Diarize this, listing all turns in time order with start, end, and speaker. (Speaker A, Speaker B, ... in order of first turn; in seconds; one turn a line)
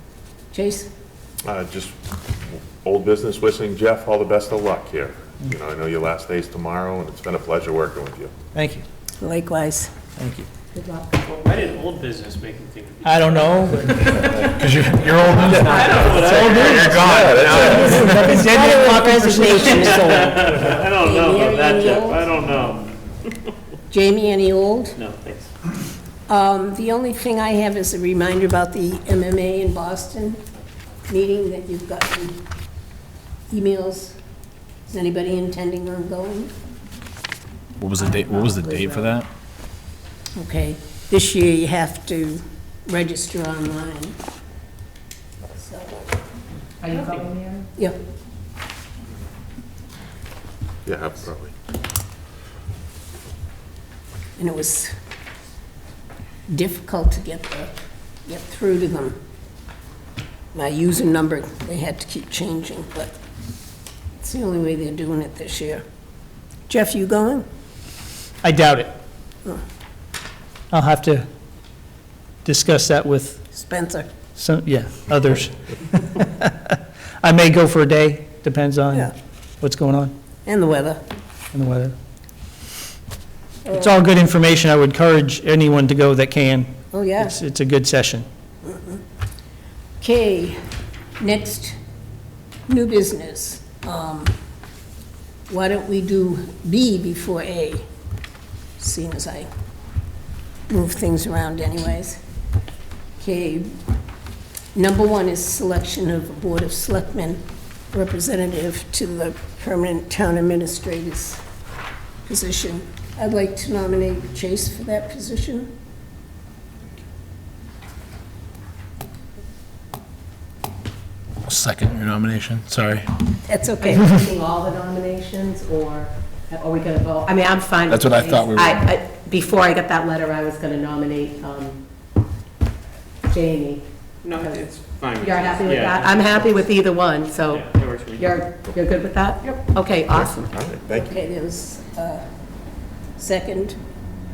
Speaker A: 0.5-0.9
Speaker B: 1.4-1.9
Speaker B: 2.5-8.3
Speaker C: 8.5-8.8
Speaker A: 9.2-9.9
Speaker C: 10.2-10.5
Speaker D: 10.7-11.8
Speaker E: 11.2-14.5
Speaker C: 13.0-14.1
Speaker F: 14.2-18.4
Speaker E: 15.3-17.7
Speaker C: 15.5-20.5
Speaker A: 17.6-22.2
Speaker E: 19.5-23.3
Speaker A: 23.9-25.0
Speaker E: 24.9-25.5
Speaker A: 26.3-30.4
Speaker A: 31.1-32.4
Speaker A: 33.5-34.2
Speaker A: 34.9-36.5
Speaker F: 37.8-39.3
Speaker D: 38.0-39.1
Speaker A: 40.4-44.1
Speaker A: 45.5-46.0
Speaker D: 46.8-47.7
Speaker E: 46.9-47.3
Speaker B: 50.9-51.5
Speaker A: 54.4-54.9
Speaker A: 56.5-57.7
Speaker A: 58.3-59.2
Speaker A: 60.5-63.1
Speaker A: 64.2-65.8
Speaker A: 66.7-67.5
Speaker C: 68.4-69.0
Speaker C: 70.7-71.3
Speaker C: 72.4-73.5
Speaker A: 73.5-74.1
Speaker C: 74.3-80.1
Speaker A: 80.5-81.0
Speaker C: 81.5-82.0
Speaker A: 83.6-84.0
Speaker C: 83.7-88.3
Speaker A: 86.9-87.3
Speaker A: 88.6-89.0
Speaker A: 90.0-90.6
Speaker A: 91.2-91.8
Speaker A: 92.7-94.3
Speaker A: 95.5-97.8
Speaker A: 98.8-99.5
Speaker A: 100.7-102.2
Speaker A: 103.2-103.7
Speaker A: 104.7-111.4
Speaker A: 112.2-115.7
Speaker F: 121.4-123.1
Speaker A: 123.5-124.1
Speaker D: 123.8-131.8
Speaker F: 127.9-128.8
Speaker D: 133.3-134.7
Speaker E: 134.2-136.7
Speaker D: 135.2-140.6
Speaker E: 137.5-138.4
Speaker B: 140.1-141.1
Speaker A: 140.9-142.2
Speaker A: 143.2-143.8